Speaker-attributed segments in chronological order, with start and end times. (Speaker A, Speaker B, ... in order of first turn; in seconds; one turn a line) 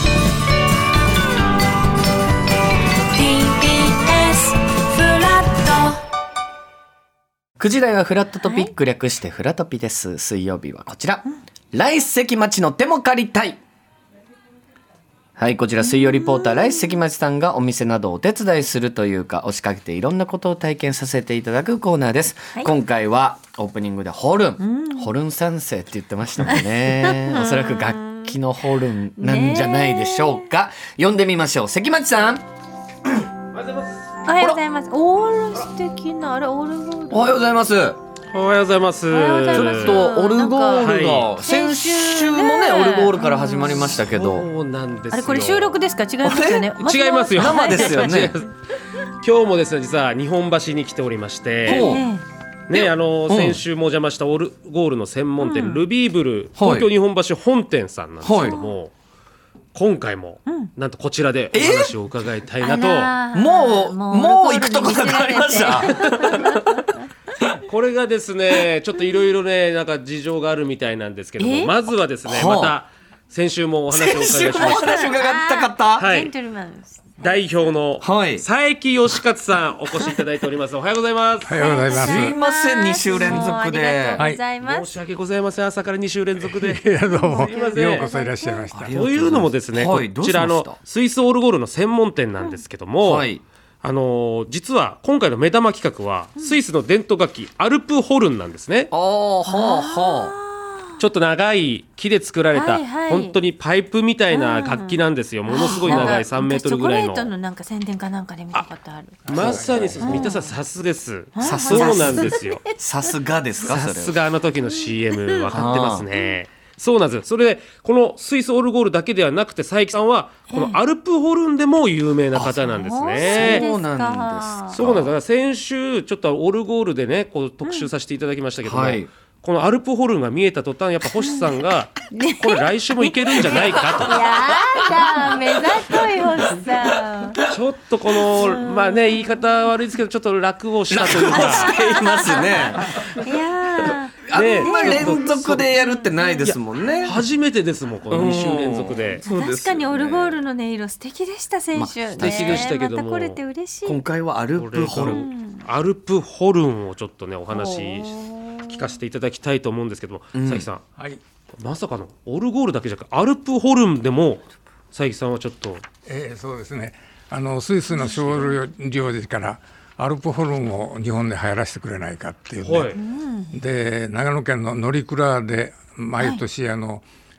Speaker A: 3.1-6.0
Speaker B: 7.6-13.6
Speaker A: 8.3-8.7
Speaker B: 15.4-32.4
Speaker A: 15.8-17.0
Speaker A: 24.6-25.1
Speaker A: 26.5-28.4
Speaker A: 29.2-30.4
Speaker C: 33.5-34.2
Speaker A: 34.2-37.4
Speaker B: 37.1-38.0
Speaker C: 38.3-40.0
Speaker A: 39.1-43.8
Speaker B: 39.5-44.5
Speaker C: 40.8-41.3
Speaker C: 43.7-45.8
Speaker A: 45.1-48.3
Speaker B: 46.2-46.7
Speaker C: 46.8-48.5
Speaker B: 47.3-48.3
Speaker C: 49.2-52.0
Speaker B: 51.6-52.1
Speaker A: 51.7-52.2
Speaker C: 52.7-58.9
Speaker B: 52.7-53.6
Speaker A: 55.4-55.9
Speaker B: 56.6-56.9
Speaker B: 58.2-58.6
Speaker A: 58.4-58.8
Speaker C: 59.7-63.1
Speaker A: 60.5-60.7
Speaker B: 61.5-62.0
Speaker A: 62.6-67.0
Speaker B: 63.3-66.8
Speaker C: 67.6-75.1
Speaker A: 71.4-71.8
Speaker B: 72.2-72.8
Speaker B: 73.9-76.1
Speaker A: 74.5-77.3
Speaker C: 75.9-76.3
Speaker C: 77.2-81.8
Speaker B: 78.0-78.4
Speaker D: 81.4-82.4
Speaker A: 81.5-84.9
Speaker B: 81.9-84.2
Speaker C: 83.2-83.5
Speaker D: 84.2-84.4
Speaker C: 84.6-86.8
Speaker D: 86.4-89.0
Speaker A: 87.0-88.7
Speaker C: 87.4-88.1
Speaker B: 88.7-90.8
Speaker C: 88.9-93.3
Speaker B: 93.0-93.4
Speaker C: 93.8-98.9
Speaker B: 98.9-100.3
Speaker A: 99.5-101.0
Speaker C: 101.0-107.3
Speaker A: 102.5-103.4
Speaker A: 104.3-109.5
Speaker B: 105.6-106.2
Speaker D: 109.2-110.2
Speaker C: 109.2-112.6
Speaker B: 109.4-110.2
Speaker A: 110.0-110.5
Speaker A: 111.3-112.6
Speaker B: 111.4-114.2
Speaker C: 113.6-123.7
Speaker A: 114.9-115.6
Speaker B: 115.5-116.1
Speaker A: 120.5-120.8
Speaker A: 122.6-124.8
Speaker B: 123.2-125.1
Speaker C: 124.7-134.2
Speaker A: 127.6-127.9
Speaker B: 128.6-129.1
Speaker A: 131.1-131.6
Speaker A: 132.1-137.4
Speaker B: 133.4-136.0
Speaker B: 136.7-137.5
Speaker C: 137.4-141.8
Speaker A: 138.3-139.4
Speaker B: 140.9-143.1
Speaker A: 141.3-146.6
Speaker B: 143.9-147.2
Speaker C: 144.3-145.7
Speaker C: 146.4-149.2
Speaker B: 148.1-150.4
Speaker A: 149.2-154.0
Speaker B: 151.7-152.7
Speaker C: 152.2-153.4
Speaker B: 153.8-155.3
Speaker C: 154.5-160.8
Speaker A: 155.1-155.7
Speaker A: 157.5-158.9
Speaker B: 160.3-160.7
Speaker D: 160.9-161.2
Speaker C: 161.5-165.8
Speaker D: 166.0-173.0
Speaker A: 167.9-168.4
Speaker C: 172.6-173.0
Speaker A: 172.9-173.6
Speaker D: 173.5-177.1